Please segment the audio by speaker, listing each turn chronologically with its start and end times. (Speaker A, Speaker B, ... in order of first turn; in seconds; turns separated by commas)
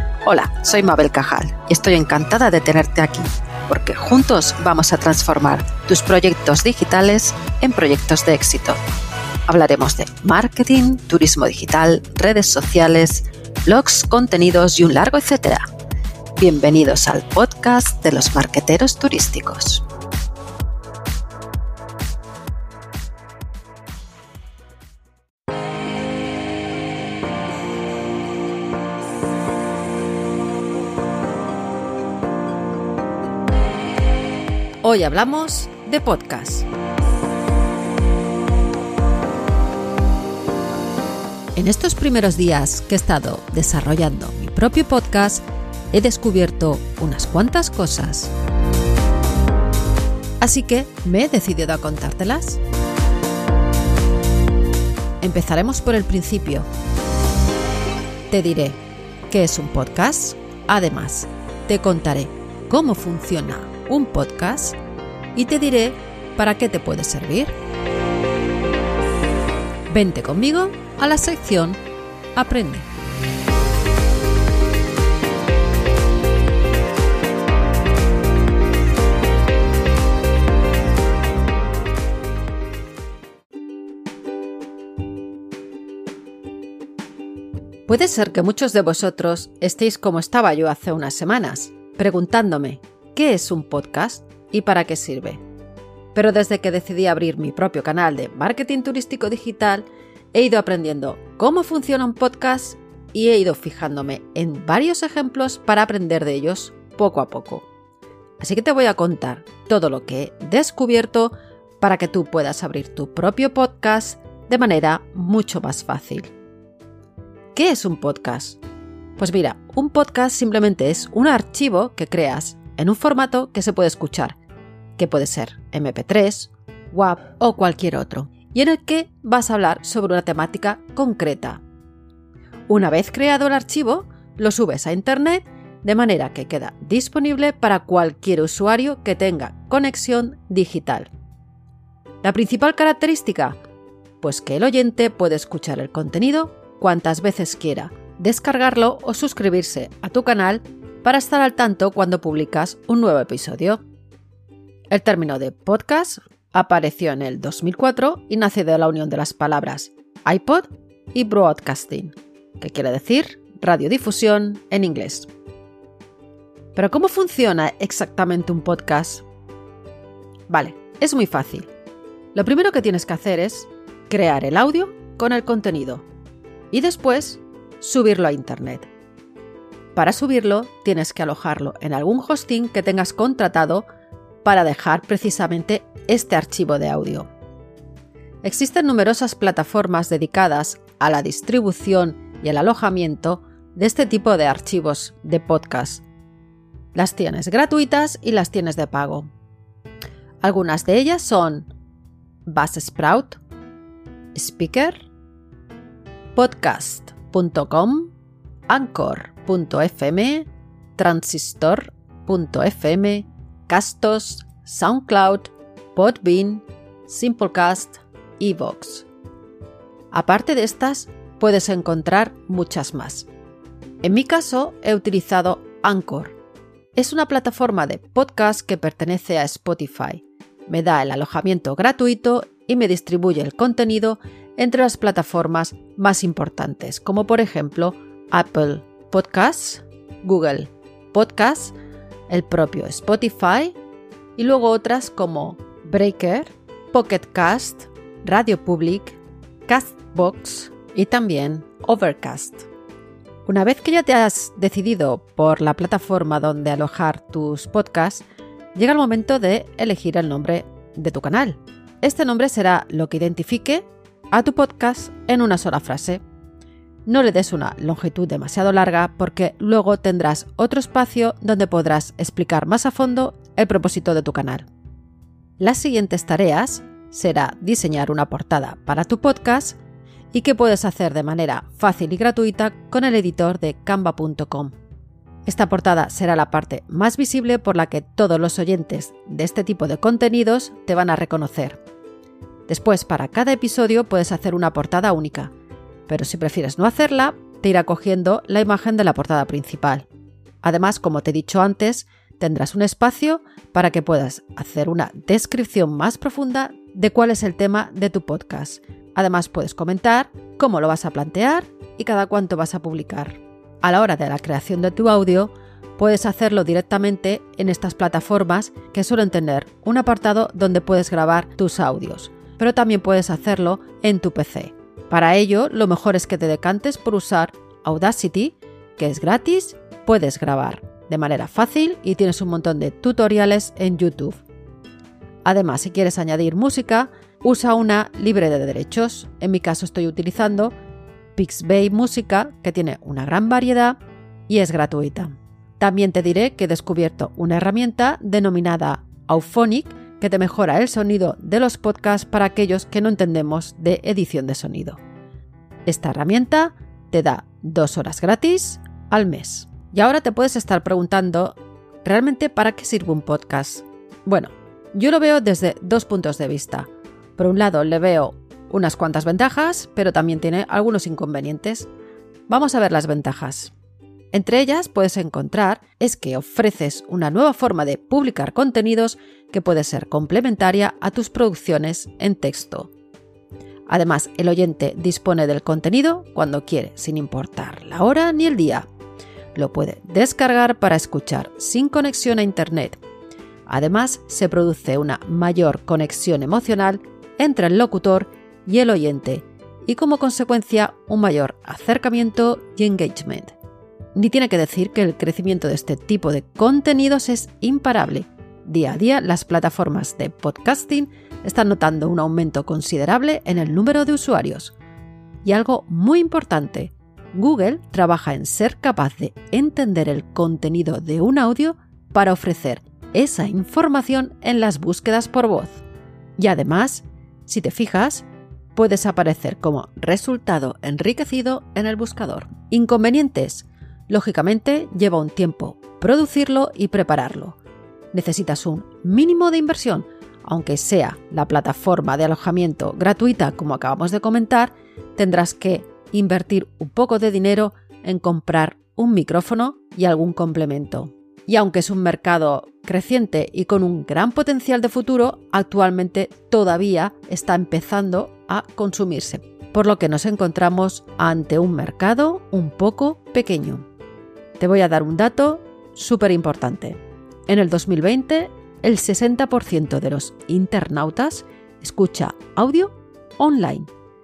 Speaker A: 0.2-8.8, Speaker A: 9.5-15.6, Speaker A: 16.4-19.8, Speaker A: 34.8-36.6, Speaker A: 41.5-48.3, Speaker A: 50.4-52.6, Speaker A: 55.2-56.7, Speaker A: 58.3-64.8, Speaker A: 65.3-67.5, Speaker A: 69.9-71.8, Speaker A: 72.3-72.9, Speaker A: 87.9-95.4, Speaker A: 96.1-107.7, Speaker A: 108.4-116.3, Speaker A: 117.5-118.6, Speaker A: 119.2-124.4, Speaker A: 125.0-131.6, Speaker A: 132.7-141.1, Speaker A: 142.2-143.6, Speaker A: 144.2-153.8, Speaker A: 154.9-165.3, Speaker A: 166.8-169.2, Speaker A: 170.5-171.7, Speaker A: 172.3-176.1, Speaker A: 176.7-178.9, Speaker A: 179.9-183.9, Speaker A: 184.4-187.3, Speaker A: 188.4-196.0, Speaker A: 196.9-199.3, Speaker A: 200.4-201.7, Speaker A: 202.4-203.4, Speaker A: 204.3-205.1, Speaker A: 206.3-208.1, Speaker A: 208.7-219.1, Speaker A: 220.1-223.3, Speaker A: 224.0-226.4, Speaker A: 226.9-241.7, Speaker A: 242.3-243.8, Speaker A: 244.4-252.7, Speaker A: 253.4-266.2, Speaker A: 267.1-274.7, Speaker A: 275.6-279.8, Speaker A: 280.3-284.8, Speaker A: 285.4-291.8, Speaker A: 292.7-295.5, Speaker A: 296.1-300.1, Speaker A: 300.6-334.4, Speaker A: 335.4-340.7, Speaker A: 341.4-355.0, Speaker A: 355.9-371.9, Speaker A: 372.5-373.7, Speaker A: 374.3-382.9, Speaker A: 383.9-388.9, Speaker A: 389.5-393.0, Speaker A: 393.6-403.5, Speaker A: 404.1-414.7, Speaker A: 415.4-425.8, Speaker A: 426.4-437.6, Speaker A: 438.1-463.9, Speaker A: 464.6-473.9